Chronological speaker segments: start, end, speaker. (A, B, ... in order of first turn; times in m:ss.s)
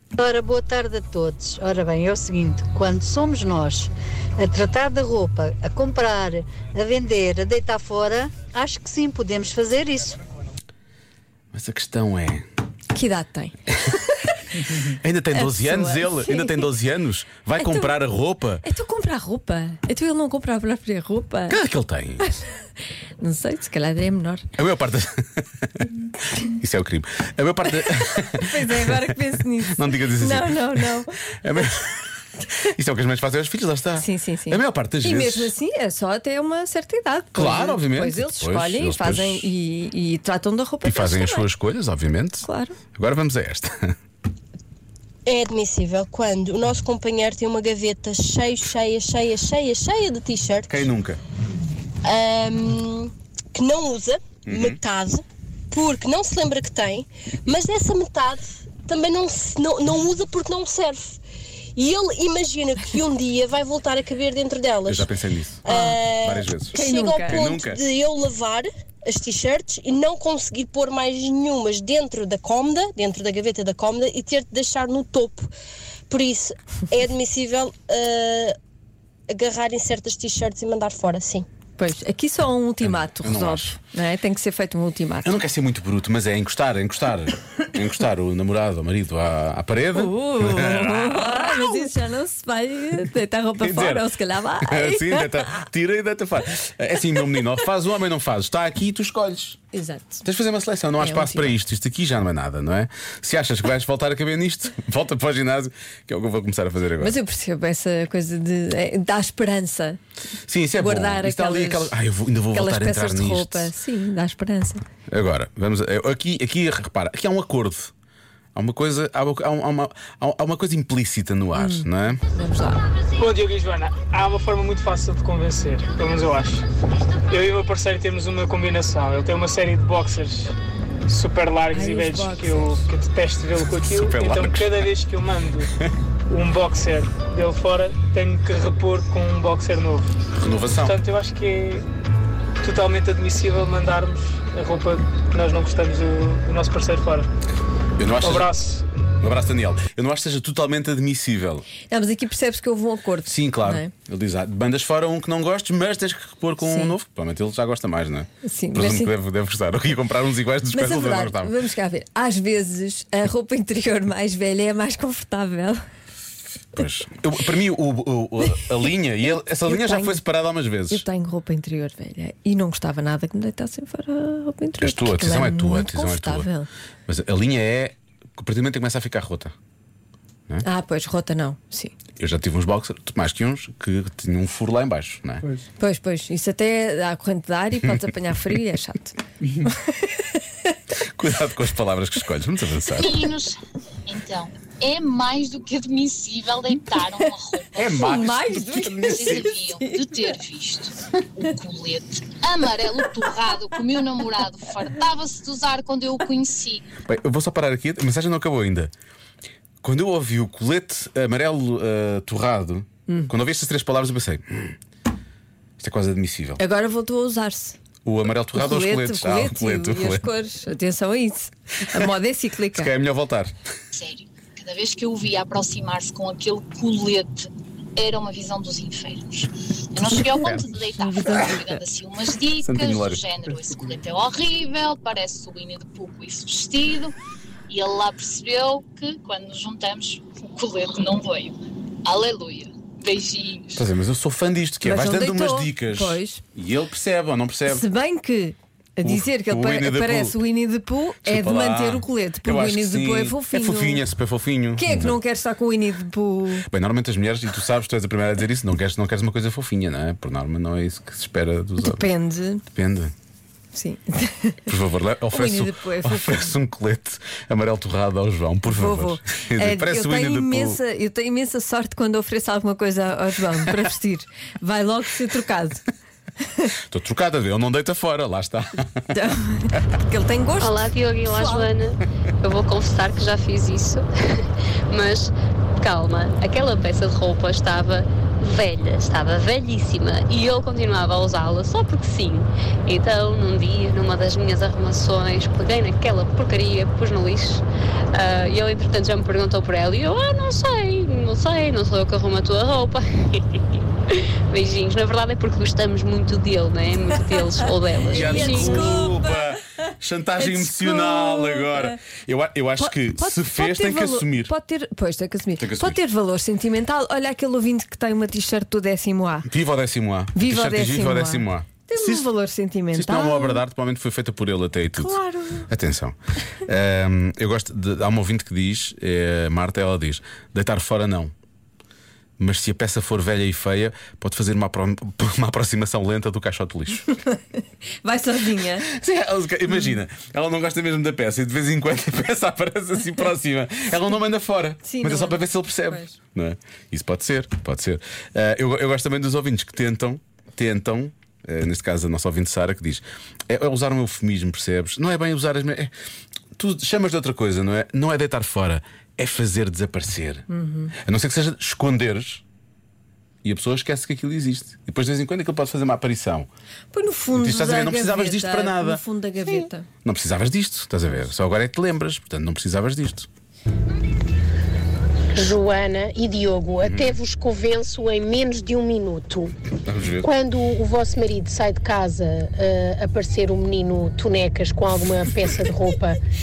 0:00.2-0:10.2 A
0:11.5-0:12.4 B
0:12.9-0:13.6 C
0:14.8-0:18.6 B
0:15.3-0:16.7 C
0:17.6-0:17.9 C
0:18.6-0:21.6 C
0:21.5-0:22.2 B
0:23.2-0:24.4 C
0:24.6-0:32.1 B
0:28.4-0:31.1 C
0:32.6-0:35.5 B
0:34.0-0:41.5 C
0:37.3-0:39.5 B
0:40.8-0:43.9 B
0:42.4-0:42.8 C
0:45.2-0:50.9 D
0:50.7-0:51.2 B
0:52.0-1:01.2 D
0:54.4-0:54.8 B
1:01.8-1:05.1 D
1:04.8-1:05.6 B
1:05.6-1:15.5 D
1:05.7-1:06.0 C
1:06.2-1:07.8 B
1:06.7-1:07.4 C
1:16.1-1:18.5 D
1:19.3-1:21.5 D
1:21.8-1:25.3 C
1:22.8-1:23.8 B
1:25.2-1:31.7 B
1:29.9-1:35.6 C
1:33.6-1:39.6 B
1:39.7-1:40.2 C
1:40.2-1:47.2 B
1:41.0-1:41.6 C
1:47.0-1:50.0 C
1:50.5-1:53.7 B
1:50.8-1:52.0 C
1:52.5-1:54.8 C
1:55.1-1:57.9 B
1:58.5-2:02.2 B
2:01.5-2:02.8 C
2:03.2-2:06.6 E
2:07.3-2:10.5 E
2:11.1-2:15.7 E
2:11.7-2:12.9 C
2:13.8-2:14.8 B
2:16.3-2:20.1 E
2:20.4-2:21.0 B
2:20.8-2:21.8 E
2:22.6-2:27.3 E
2:28.0-2:28.5 B
2:28.2-2:28.8 E
2:29.2-2:31.6 B
2:31.9-2:33.9 C
2:33.2-2:41.5 B
2:36.6-2:36.9 C
2:38.4-2:39.1 C
2:40.7-2:45.8 C
2:46.7-2:51.0 B
2:49.6-2:50.2 C
2:50.9-2:56.7 C
2:54.8-2:56.5 B
2:57.1-2:59.5 B
3:00.6-3:01.9 C
3:02.2-3:05.4 B
3:05.8-3:10.7 C
3:11.0-3:13.2 B
3:13.0-3:18.2 F
3:17.7-3:19.5 B
3:17.9-3:20.2 C
3:19.0-3:26.8 F
3:27.0-3:28.9 B
3:29.8-3:34.8 B
3:35.8-3:36.6 B
3:36.6-3:37.8 C
3:38.0-3:40.3 B
3:38.5-3:42.9 C
3:42.7-3:43.5 B
3:43.9-3:57.1 F
3:50.3-3:50.7 B
3:50.9-3:51.8 C
3:52.6-3:53.2 B
3:57.7-4:03.8 F
4:03.8-4:07.8 B
4:04.8-4:06.4 C
4:07.7-4:14.0 C
4:09.0-4:10.4 B
4:11.2-4:15.2 B
4:14.8-4:16.6 C
4:16.6-4:22.1 B
4:21.8-4:22.6 C
4:22.7-4:23.1 B
4:23.7-4:24.6 C
4:24.7-4:30.8 B
4:25.3-4:26.5 C
4:28.7-4:35.8 C
4:36.8-4:39.1 B
4:39.1-4:41.7 C
4:40.6-5:03.6 G
5:04.1-5:09.0 G
5:08.0-5:09.5 C
5:08.1-5:14.5 B
5:10.4-5:12.0 C
5:12.8-5:19.5 C
5:15.6-5:16.0 B
5:19.4-5:22.3 B
5:20.3-5:23.6 C
5:22.9-5:31.3 B
5:25.0-5:25.7 C
5:32.4-5:37.1 B
5:38.0-5:38.9 C
5:38.8-5:55.9 B
5:44.8-5:46.2 C
5:56.6-6:02.4 B
6:00.5-6:00.9 C
6:03.4-6:06.5 B
6:06.9-6:09.8 C
6:07.3-6:13.3 B
6:15.3-6:19.5 H
6:16.8-6:17.2 B
6:19.8-6:20.3 B
6:20.2-6:26.2 H